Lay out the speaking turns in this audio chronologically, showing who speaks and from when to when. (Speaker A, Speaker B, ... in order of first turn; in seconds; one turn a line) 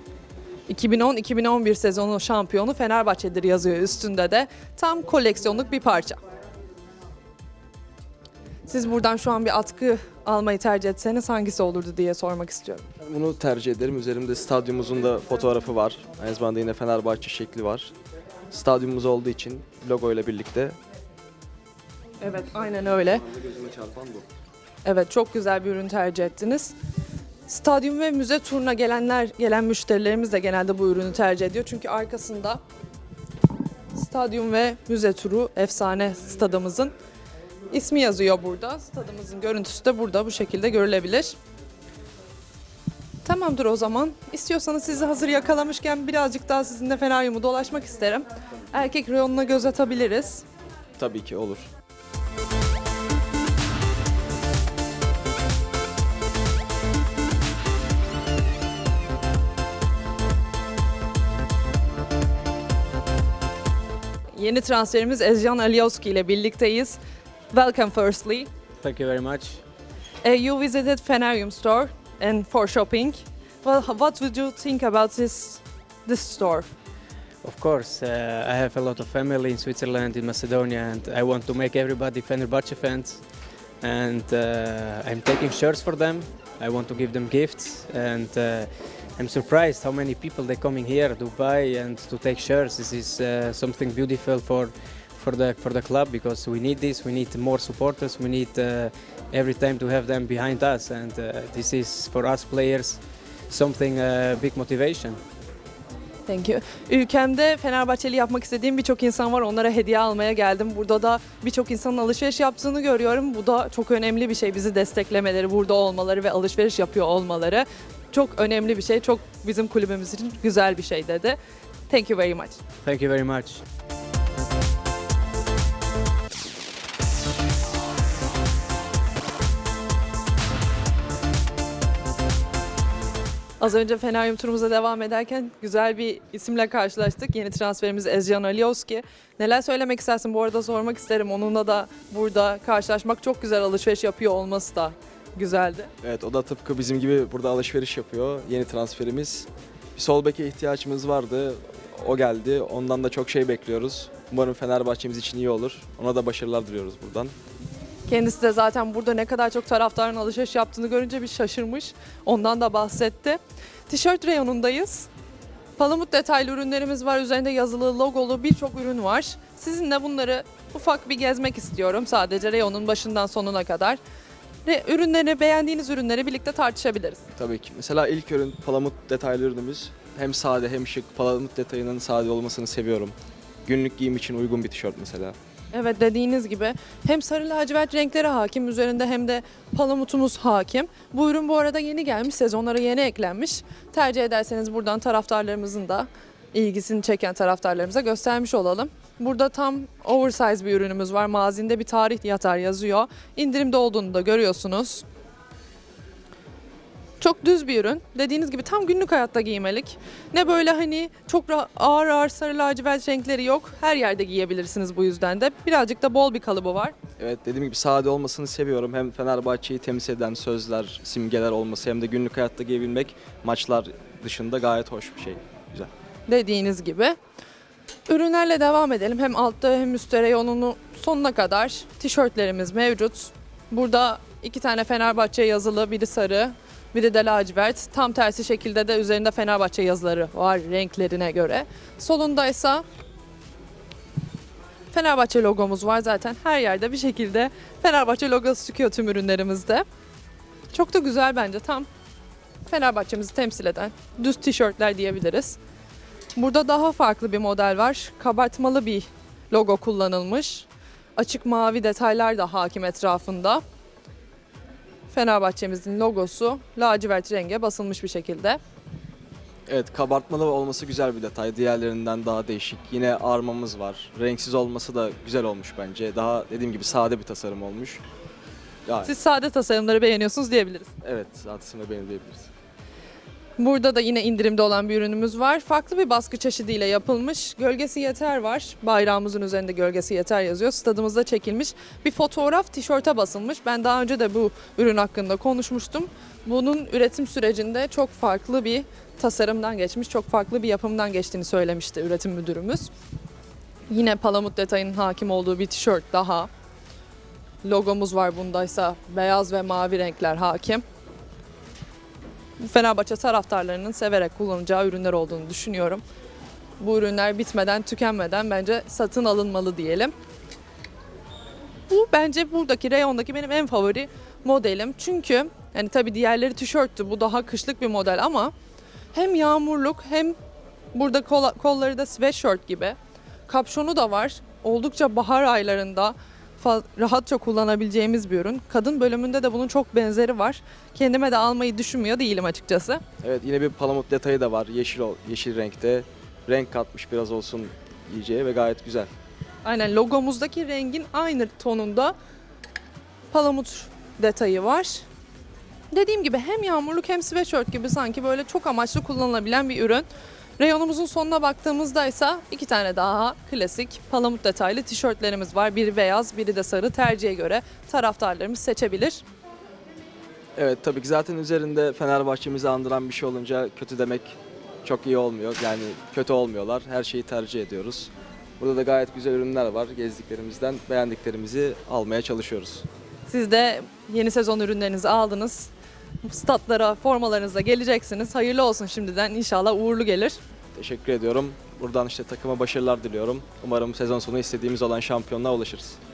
Speaker A: 0.7-6.2
Speaker A: 8.7-12.9
Speaker B: 13.0-17.9
Speaker B: 18.5-20.8
Speaker A: 22.2-23.3
Speaker B: 23.6-24.2
Speaker A: 24.8-26.7
Speaker A: 27.5-32.6
Speaker A: 33.9-36.9
Speaker A: 37.7-41.4
Speaker A: 43.2-50.4
Speaker B: 51.0-51.7
Speaker A: 64.4-67.0
Speaker A: 67.5-68.5
Speaker C: 68.8-69.6
Speaker A: 70.2-76.7
Speaker C: 77.4-83.2
Speaker C: 83.8-105.2
Speaker A: 106.3-121.4
Speaker A: 121.9-122.6
Speaker C: 122.8-123.6
Speaker A: 133.6-145.9
Speaker B: 146.0-157.3
Speaker A: 158.1-165.1
Speaker A: 165.8-174.0
Speaker A: 174.7-177.2
Speaker B: 177.4-185.4
Speaker A: 185.7-205.1
Speaker A: 207.2-216.9
Speaker B: 217.2-225.9
Speaker A: 226.3-227.2
Speaker A: 228.1-242.8
Speaker A: 244.9-249.8
Speaker A: 250.7-251.9
Speaker A: 252.7-255.6
Speaker A: 256.4-263.6
Speaker A: 265.1-268.6
Speaker B: 269.7-278.0
Speaker B: 278.9-279.1
Speaker A: 279.1-280.9
Speaker B: 281.0-282.5
Speaker A: 283.6-302.9
Speaker A: 303.9-306.5
Speaker A: 307.6-310.8
Speaker A: 312.6-316.0
Speaker A: 316.8-320.1
Speaker A: 321.9-328.5
Speaker A: 329.1-330.4
Speaker A: 330.9-333.0
Speaker A: 333.5-343.0
Speaker B: 343.2-349.1
Speaker A: 349.6-352.1
Speaker A: 353.3-355.1
Speaker A: 355.9-360.1
Speaker A: 360.6-369.2
Speaker B: 370.6-382.9
Speaker A: 383.3-385.7
Speaker A: 386.2-390.4
Speaker B: 390.8-396.0